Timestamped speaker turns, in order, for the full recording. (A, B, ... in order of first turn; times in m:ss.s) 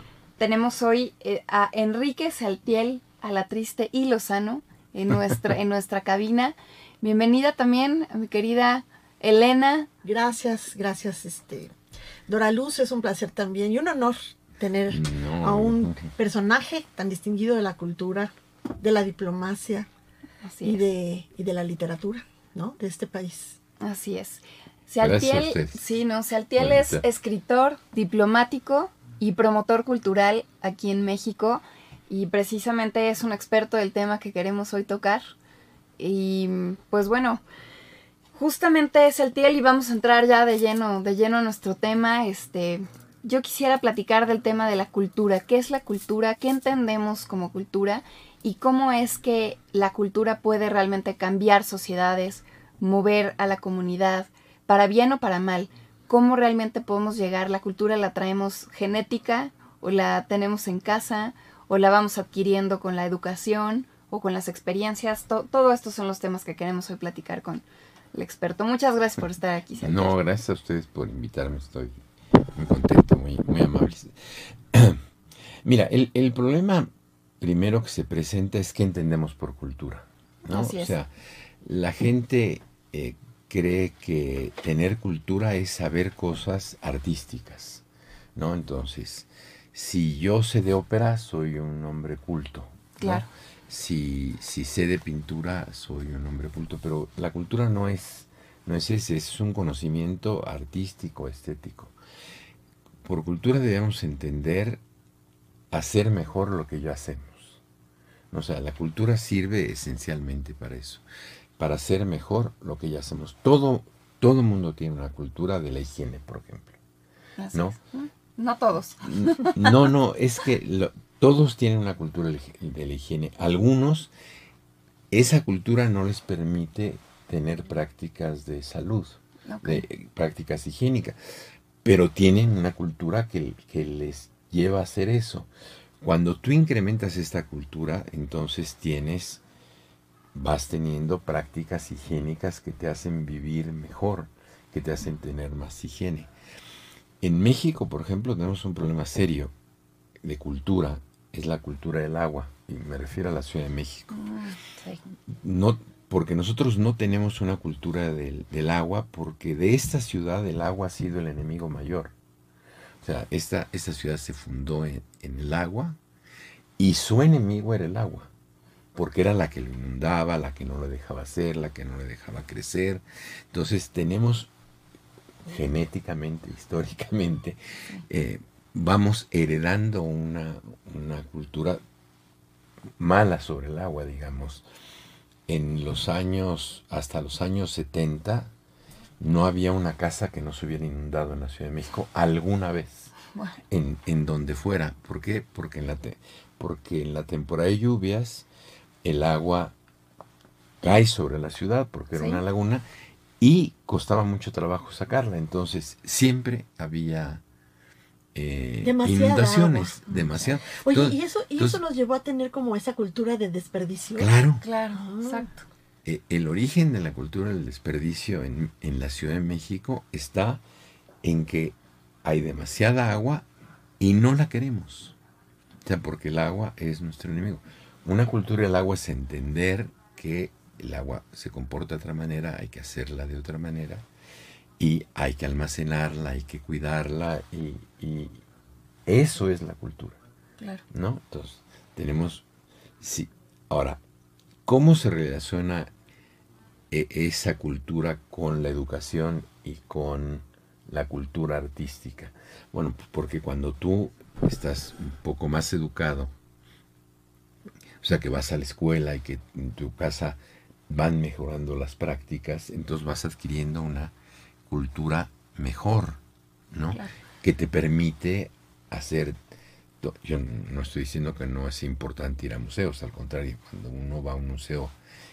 0:00.4-0:09.9 A
0:10.0-0:11.7 B
0:12.3-0:19.9 B
0:14.9-0:16.1 C
0:20.4-0:20.8 A
0:20.6-0:23.6 B
0:23.8-0:35.2 A
0:25.0-0:25.8 C
0:26.6-0:27.0 C
0:36.0-0:37.4 A
0:38.4-1:10.2 A
1:09.8-1:12.0 C
1:12.5-1:15.0 C
1:15.6-1:16.9 C
1:17.4-1:21.1 C
1:20.5-1:20.9 A
1:21.6-1:27.8 C
1:28.3-1:41.9 C
1:33.0-1:33.3 A
1:43.0-1:44.8 C
1:45.7-1:47.6 C
1:48.3-1:51.0 C
1:51.6-1:56.8 C
1:57.4-1:59.8 A
1:59.0-2:04.1 C
2:05.1-2:11.2 C
2:09.5-2:09.8 A
2:11.8-2:15.5 C
2:16.0-2:19.4 C
2:20.3-2:26.3 C
2:27.2-2:29.5 C
2:30.2-2:34.2 C
2:34.1-2:35.0 A
2:35.3-2:42.1 C
2:43.0-2:46.0 C
2:46.8-2:48.3 C
2:48.9-2:54.5 C
2:55.4-3:01.8 C
3:03.0-3:04.6 C
3:05.5-3:08.5 C
3:09.2-3:13.1 C
3:13.7-3:18.5 C
3:19.0-3:19.7 C
3:20.8-3:22.8 C
3:22.1-3:22.4 A
3:23.4-3:27.4 C
3:28.3-3:31.8 C
3:28.8-3:30.0 B
3:30.1-3:30.5 A
3:30.7-3:34.3 B
3:34.2-3:34.6 C
3:34.6-3:35.6 A
3:34.9-3:35.5 B
3:36.0-3:40.6 C
3:41.2-3:43.4 C
3:44.0-3:45.2 C
3:45.8-3:54.0 C
3:54.8-3:58.4 C
3:59.1-4:00.2 C
4:00.9-4:02.4 C
4:03.0-4:04.0 C
4:04.7-4:05.9 C
4:06.9-4:16.3 C
4:18.0-4:24.1 C
4:24.7-4:26.2 C
4:26.7-4:29.4 C
4:30.0-4:34.9 C